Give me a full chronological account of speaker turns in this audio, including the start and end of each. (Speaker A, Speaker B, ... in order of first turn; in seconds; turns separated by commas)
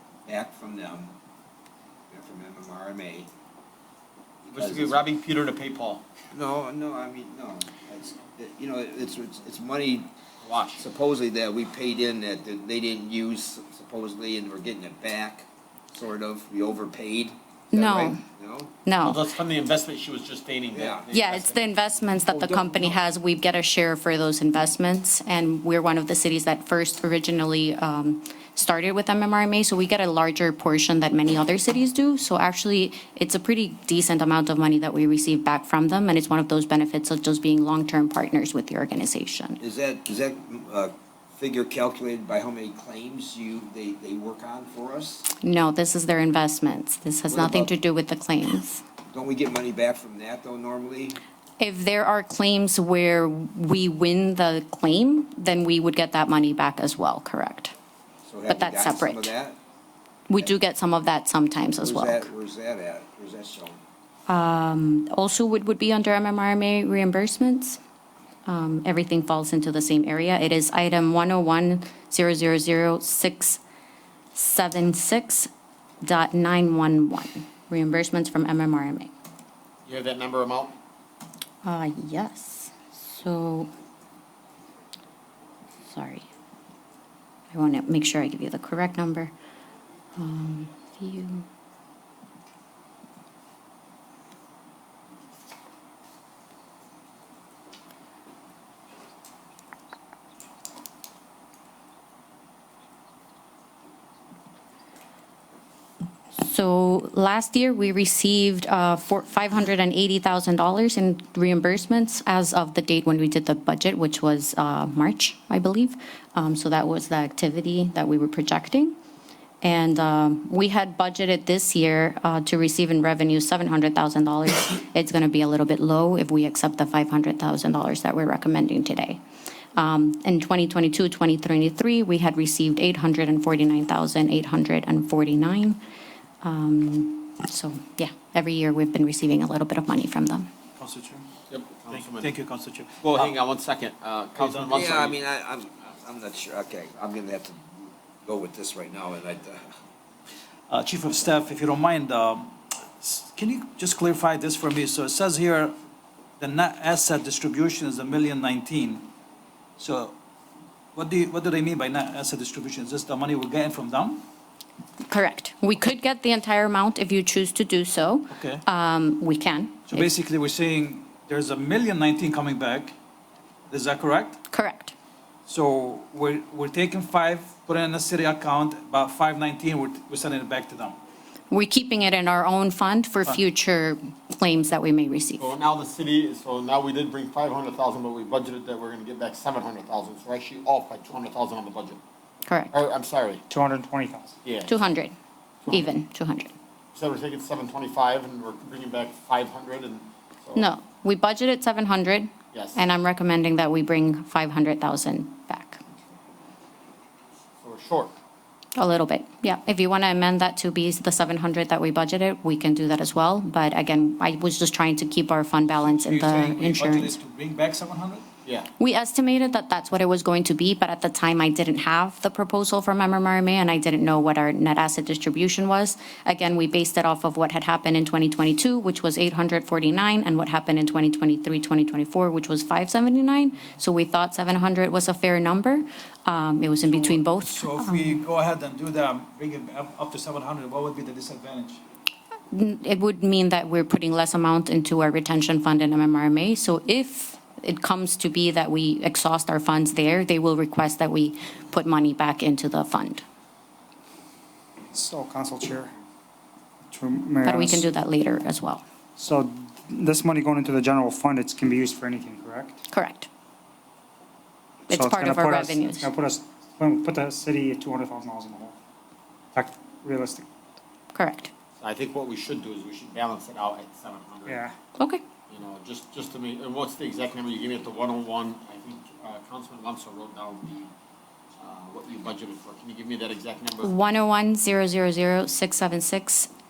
Speaker A: 0.2-1.1, Speaker A: 2.1-3.3, Speaker A: 4.5-5.0, Speaker B: 4.5-6.0, Speaker A: 6.3-10.1, Speaker B: 10.4-10.9, Speaker A: 10.8-18.7, Speaker C: 17.7-18.2, Speaker C: 18.8-19.2, Speaker B: 19.0-21.6, Speaker A: 20.7-21.1, Speaker C: 21.1-39.6, Speaker A: 22.3-22.9, Speaker A: 39.6-45.3, Speaker C: 45.4-48.8, Speaker A: 47.3-47.7, Speaker A: 49.1-51.2, Speaker C: 51.6-57.7, Speaker A: 58.3-59.6, Speaker C: 58.5-59.3, Speaker C: 60.3-62.3, Speaker A: 61.8-63.8, Speaker C: 64.3-67.8, Speaker C: 68.5-73.6, Speaker C: 74.3-75.5, Speaker C: 76.0-79.1, Speaker B: 79.8-80.8, Speaker C: 81.6-83.7, Speaker C: 85.8-86.3, Speaker C: 87.5-89.3, Speaker C: 90.2-91.5, Speaker C: 106.3-118.9, Speaker C: 119.6-129.2, Speaker C: 129.8-135.8, Speaker C: 136.4-140.5, Speaker D: 140.8-141.3, Speaker B: 141.5-142.3, Speaker D: 141.9-143.3, Speaker B: 143.0-145.2, Speaker D: 144.4-145.1, Speaker A: 144.7-149.7, Speaker D: 150.7-155.8, Speaker D: 156.4-159.1, Speaker D: 159.8-160.1, Speaker D: 160.9-164.2, Speaker C: 165.1-170.1, Speaker D: 168.3-168.6, Speaker D: 169.9-172.9, Speaker D: 173.7-174.4, Speaker C: 174.5-174.9, Speaker D: 175.5-181.0, Speaker C: 181.5-185.5, Speaker B: 185.4-192.0, Speaker C: 192.5-192.7, Speaker B: 192.7-193.4, Speaker E: 193.5-194.3, Speaker B: 194.4-194.8, Speaker C: 194.7-195.2, Speaker B: 195.7-195.9, Speaker C: 195.7-196.5, Speaker B: 196.9-200.7, Speaker C: 200.5-205.8, Speaker B: 202.5-202.9, Speaker B: 207.6-208.2, Speaker C: 208.8-217.2, Speaker D: 215.8-218.2, Speaker C: 218.8-238.2, Speaker D: 236.8-241.8, Speaker C: 242.5-253.2, Speaker E: 254.9-255.9, Speaker E: 256.9-257.8, Speaker C: 257.4-258.8, Speaker E: 259.2-262.8, Speaker C: 262.9-263.3, Speaker C: 264.9-266.1, Speaker E: 264.9-268.8, Speaker E: 269.5-270.4, Speaker C: 271.1-271.5, Speaker B: 271.8-274.7, Speaker C: 274.9-275.2, Speaker B: 275.5-280.9, Speaker B: 281.6-283.9, Speaker C: 283.8-286.5